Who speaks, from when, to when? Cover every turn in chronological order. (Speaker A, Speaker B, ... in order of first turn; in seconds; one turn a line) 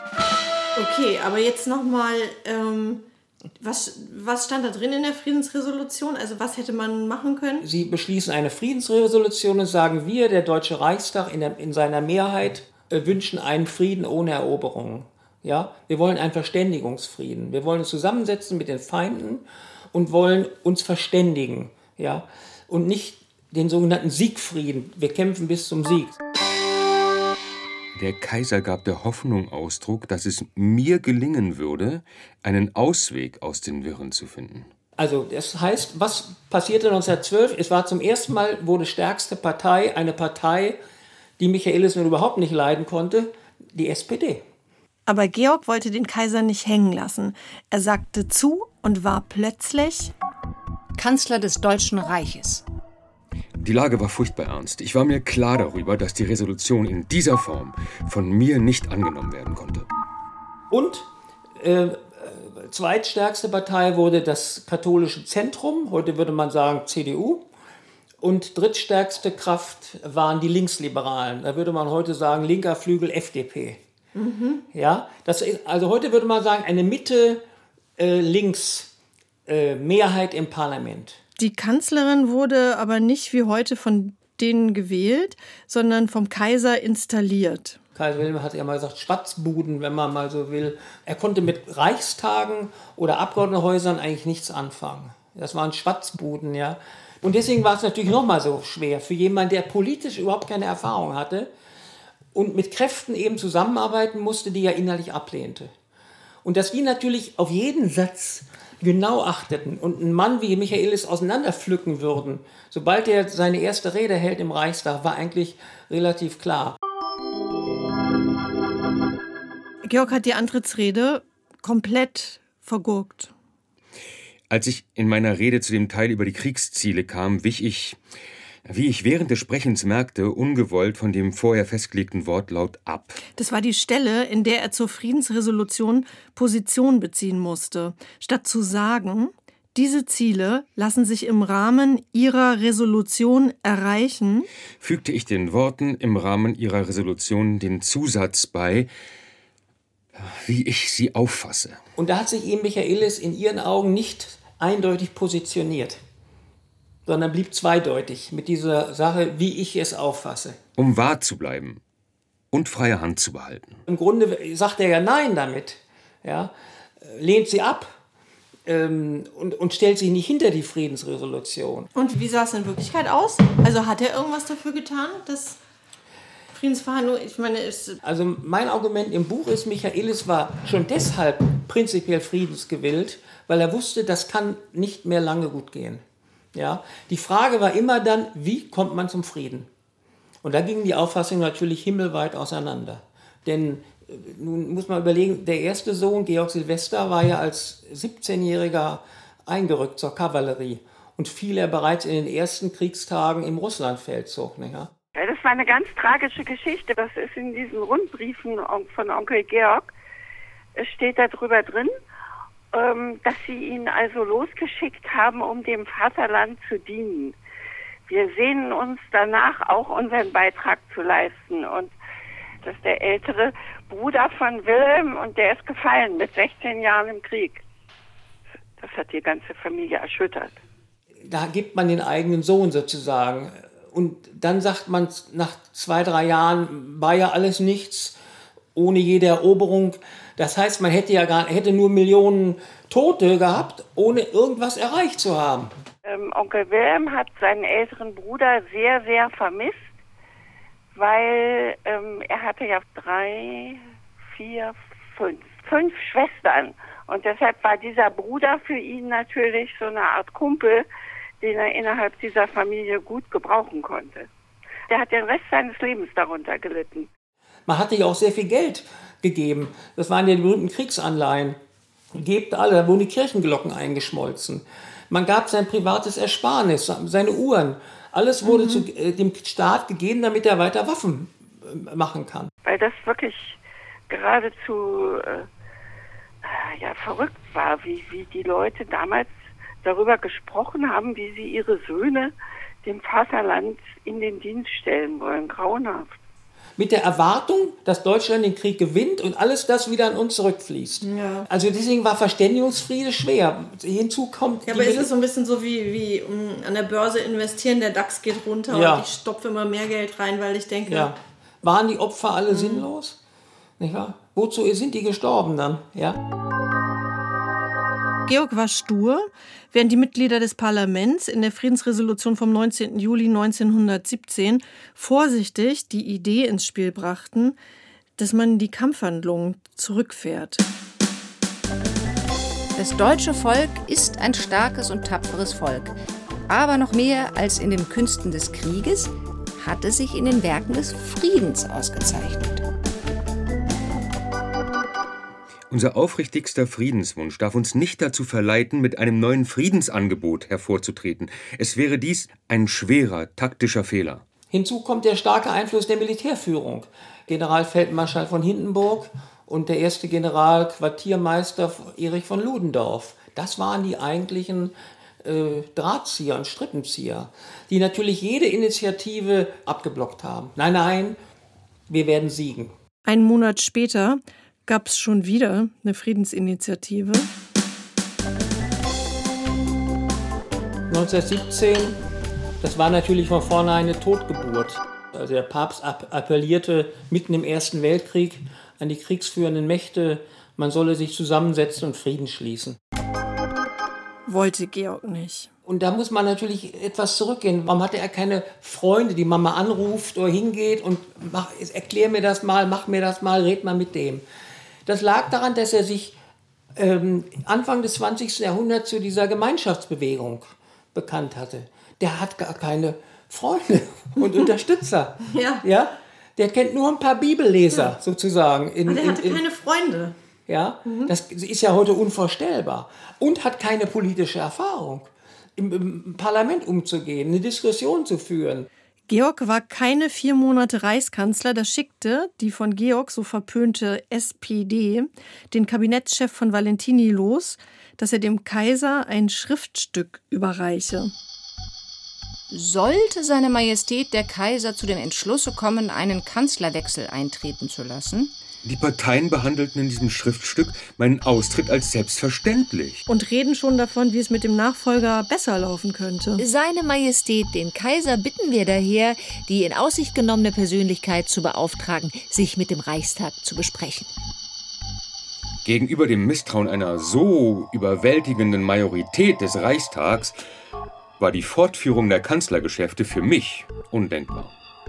Speaker A: 0.8-3.0
Speaker A: 3.6-7.7
Speaker B: 7.6-26.2
Speaker C: 27.9-34.7
Speaker B: 35.0-40.8
Speaker B: 41.4-44.4
Speaker A: 45.1-50.1
Speaker D: 51.0-52.6
Speaker C: 53.6-59.9
Speaker B: 60.7-67.5
Speaker B: 68.2-73.8
Speaker A: 74.2-74.7
Speaker B: 74.7-77.4
Speaker B: 78.0-78.9
Speaker B: 79.5-81.2
Speaker A: 81.4-87.8
Speaker B: 88.0-101.5
Speaker B: 102.3-105.7
Speaker B: 106.4-116.8
Speaker A: 119.8-123.3
Speaker C: 124.5-128.0
Speaker C: 128.7-133.2
Speaker A: 133.4-144.5
Speaker C: 144.8-148.9
Speaker C: 150.2-151.8
Speaker B: 152.0-156.0
Speaker B: 157.1-160.6
Speaker C: 160.8-161.8
Speaker C: 162.5-163.8
Speaker B: 163.9-167.9
Speaker B: 168.7-171.9
Speaker A: 171.9-175.6
Speaker A: 176.5-178.0
Speaker B: 178.0-186.0
Speaker B: 186.6-189.7
Speaker B: 190.4-204.9
Speaker E: 205.2-209.9
Speaker E: 210.8-211.9
Speaker E: 212.7-217.4
Speaker E: 218.1-221.9
Speaker E: 222.6-227.6
Speaker E: 228.8-230.6
Speaker B: 231.2-238.2
Speaker B: 238.8-245.7
Speaker E: 246.1-249.9
Speaker E: 250.9-260.9
Speaker E: 261.4-264.3
Speaker E: 264.9-267.1
Speaker B: 267.7-271.6
Speaker B: 272.1-282.5
Speaker A: 278.4-278.9
Speaker E: 282.6-283.6
Speaker E: 284.1-285.5
Speaker E: 286.4-296.1
Speaker B: 296.8-305.1
Speaker A: 301.0-301.5
Speaker A: 304.7-311.1
Speaker B: 308.7-309.1
Speaker B: 310.9-313.2
Speaker A: 312.5-312.9
Speaker B: 313.8-316.2
Speaker A: 318.3-327.6
Speaker A: 328.2-330.6
Speaker F: 332.8-335.9
Speaker F: 336.5-342.6
Speaker C: 345.7-354.2
Speaker B: 354.5-364.7
Speaker B: 365.2-371.2
Speaker B: 371.9-372.7
Speaker A: 373.1-377.3
Speaker B: 380.9-382.0
Speaker B: 382.6-392.8
Speaker A: 394.3-395.5
Speaker B: 395.7-404.2
Speaker B: 404.9-406.2
Speaker B: 406.8-419.4
Speaker A: 415.2-415.7
Speaker A: 418.9-420.2
Speaker B: 420.5-428.7
Speaker A: 420.9-421.1
Speaker A: 429.1-441.1
Speaker F: 442.5-448.4
Speaker C: 448.6-453.0
Speaker A: 453.1-456.4
Speaker D: 456.4-464.1
Speaker C: 465.6-470.4
Speaker C: 471.2-474.5